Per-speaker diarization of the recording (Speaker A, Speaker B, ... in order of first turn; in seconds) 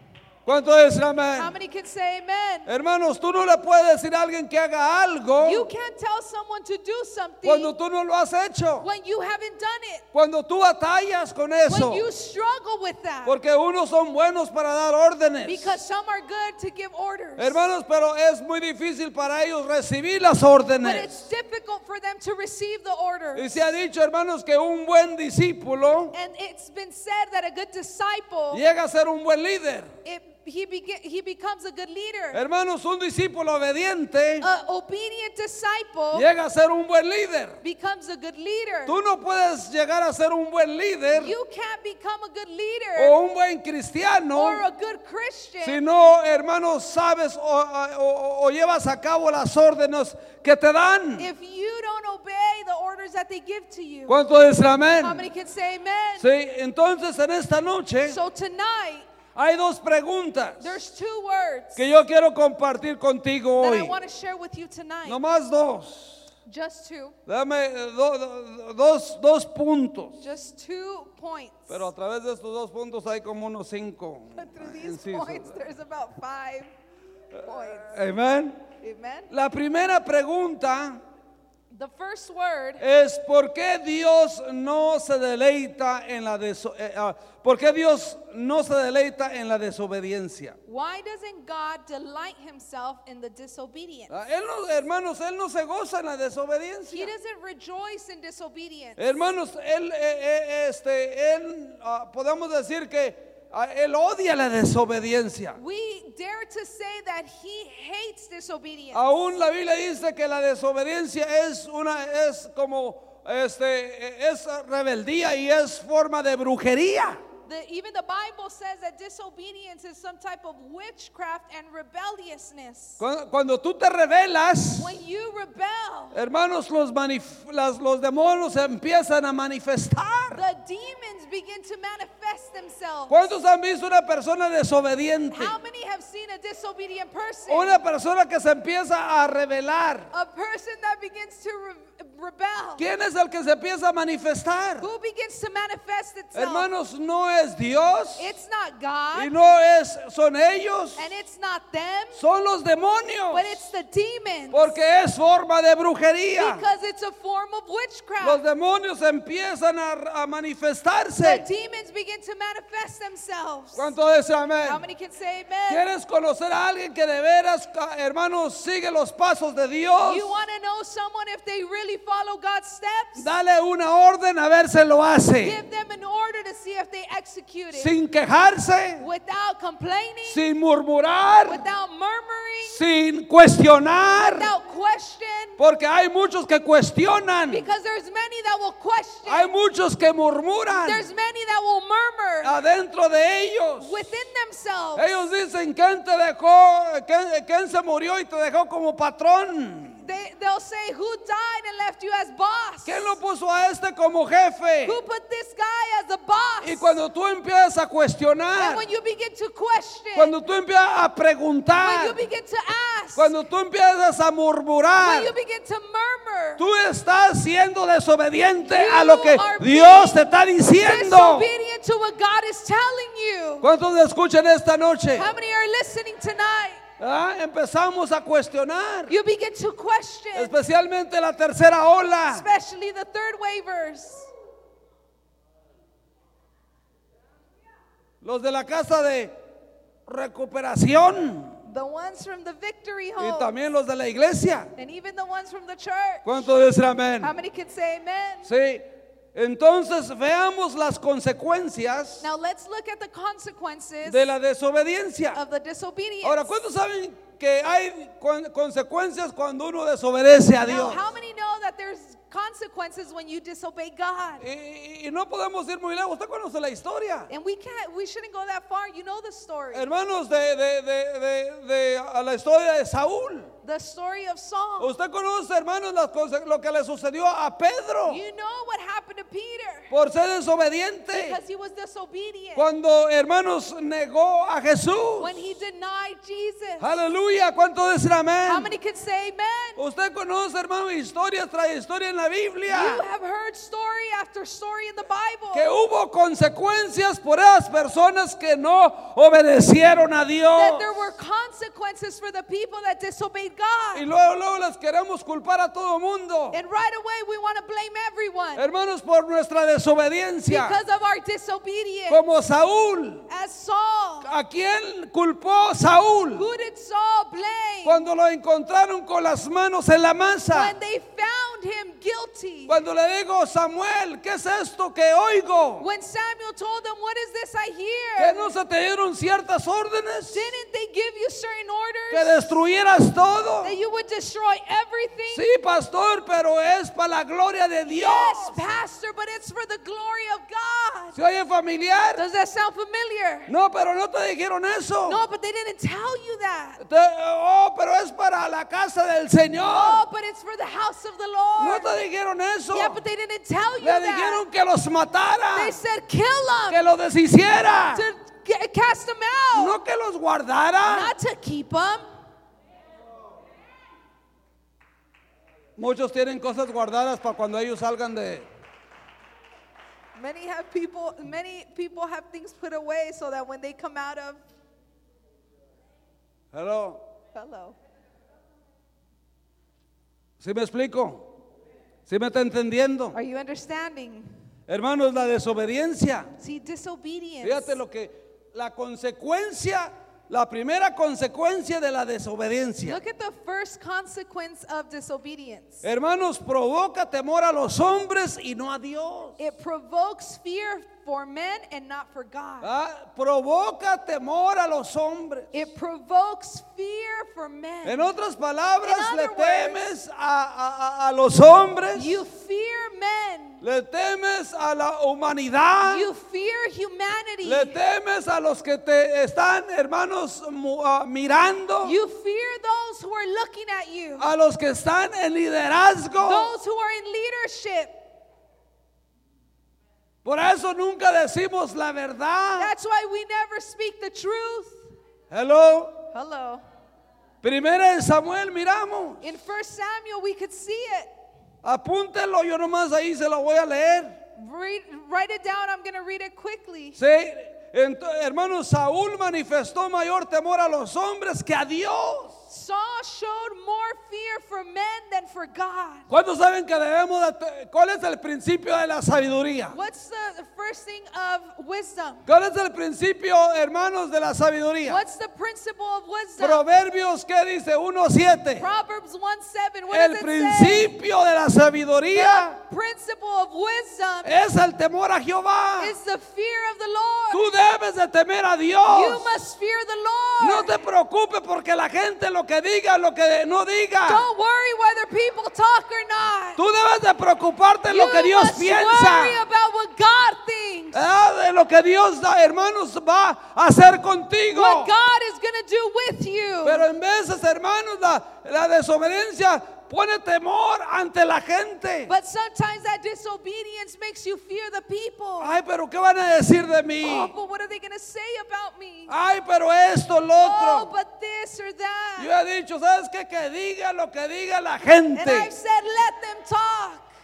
Speaker A: 0.5-1.5, 2.6-5.7, 7.4-8.9, 10.1-12.1, 13.2-15.8, 17.4-21.2, 23.3-26.1, 28.5-29.9, 32.3-34.5, 36.1-37.6, 38.9-41.3, 43.0-44.6, 45.6-51.3, 54.1-55.2, 56.2-58.2, 59.3-60.8, 61.8-64.0, 65.0-66.3, 67.3-70.2, 71.7-75.6, 77.8-78.6, 79.3-81.0, 82.8-90.6, 94.1-97.1, 99.0-105.6, 108.9-117.2, 123.0-124.9, 126.1-130.4, 133.1-135.6, 137.5-140.1, 142.8-144.9, 146.3-148.3, 149.1-151.1, 152.2-153.6, 154.5-156.6, 158.2-161.4, 163.7-164.8, 165.7-170.4, 173.2-175.6, 177.7-179.0, 180.2-181.6, 182.6-184.5, 185.6-187.7, 189.2-191.0, 192.4-194.0, 194.9-200.0, 202.8-205.0, 206.6-208.8, 210.1-212.2, 213.1-215.3, 216.6-221.5, 223.6-225.3, 227.0-229.1, 230.3-232.4, 238.2-239.3, 240.1-241.6, 243.2-244.7, 246.2-247.3, 248.4-252.2, 254.0-255.4, 256.2-261.1, 264.4-267.3, 269.7-273.5, 274.8-278.2, 279.9-281.4, 282.5-285.4, 286.8-288.7, 289.8-293.0, 295.5-301.0, 303.9-306.6, 308.5-310.8, 312.1-313.3, 314.2-316.5, 317.8-320.7, 322.7-325.9, 328.2-330.5, 332.1-333.7, 335.3-338.6, 341.1-342.2, 343.5-345.2, 346.8-350.0, 351.6-353.0, 353.8-355.8, 356.7-358.1, 359.5-361.1, 365.8-368.5, 376.5-377.0, 380.4-381.3, 382.1-383.2, 384.7-386.3, 387.4-393.0, 395.8-399.4, 402.6-405.6, 407.8-412.2, 413.6-416.1, 417.4-422.0, 424.2-426.5, 430.2-432.7, 435.3-436.0, 437.4-439.2, 441.6-444.2, 447.0-452.3, 456.1-459.8, 462.3-465.0, 466.4-468.6, 469.9-472.6, 474.2-475.9, 477.3-479.3, 480.4-484.2, 486.6-489.4, 490.9-494.9, 496.6-502.1, 505.4-507.3, 509.1-510.9, 512.2-515.5
Speaker B: 1.3-2.7, 5.4-7.7, 8.8-10.1, 11.7-13.3, 15.4-17.6, 20.8-23.7, 26.1-28.6, 30.0-32.4, 34.4-36.3, 37.6-39.0, 41.1-43.2, 44.3-45.8, 51.2-54.1, 55.0-56.3, 58.0-59.1, 60.6-61.8, 63.6-65.2, 66.5-67.2, 70.2-71.9, 74.3-76.7, 77.3-78.0, 78.8-79.3, 81.7-82.8, 90.7-94.1, 96.9-99.0, 105.6-109.0, 117.5-123.0, 124.8-126.2, 130.3-133.3, 135.3-137.8, 140.1-142.8, 144.8-146.7, 148.2-149.3, 150.9-152.2, 153.3-154.7, 156.3-158.4, 161.2-163.9, 164.6-165.8, 170.0-173.2, 175.4-177.9, 179.0-180.4, 181.4-182.8, 184.3-185.6, 187.5-189.5, 190.7-192.5, 193.8-195.1, 200.0-203.2, 204.8-207.0, 208.6-210.3, 211.8-213.3, 215.0-216.6, 218.6-220.3, 220.8-223.7, 225.1-226.8, 229.1-230.5, 232.3-234.3, 241.6-243.5, 244.8-246.5, 247.2-248.5, 252.2-254.2, 255.3-256.5, 260.6-264.4, 267.3-269.9, 273.6-274.9, 278.1-279.9, 281.1-282.7, 285.2-286.9, 288.4-289.8, 292.7-295.7, 300.5-304.1, 306.5-308.6, 310.5-312.2, 313.3-314.3, 316.4-318.1, 320.5-322.8, 325.8-328.5, 330.3-332.5, 333.6-335.4, 337.9-341.2, 342.1-343.5, 345.1-346.8, 349.6-351.9, 352.7-354.4, 355.5-356.8, 357.9-359.8, 360.8-362.1, 370.1-374.4, 377.3-377.8, 383.1-384.3, 386.4-387.8, 392.8-395.8, 399.4-402.7, 405.5-408.1, 408.8-409.8, 411.9-413.6, 415.9-417.8, 421.8-424.3, 426.2-427.9, 432.5-434.9, 436.1-436.6, 439.2-441.1, 444.4-447.0, 452.5-456.1, 459.7-462.2, 464.8-466.6, 468.6-470.9, 472.1-474.3, 475.8-477.4, 478.9-480.7, 484.1-486.6, 487.9-491.0, 494.5-496.9, 502.1-505.5, 507.0-509.1, 510.4-512.3, 515.1-517.1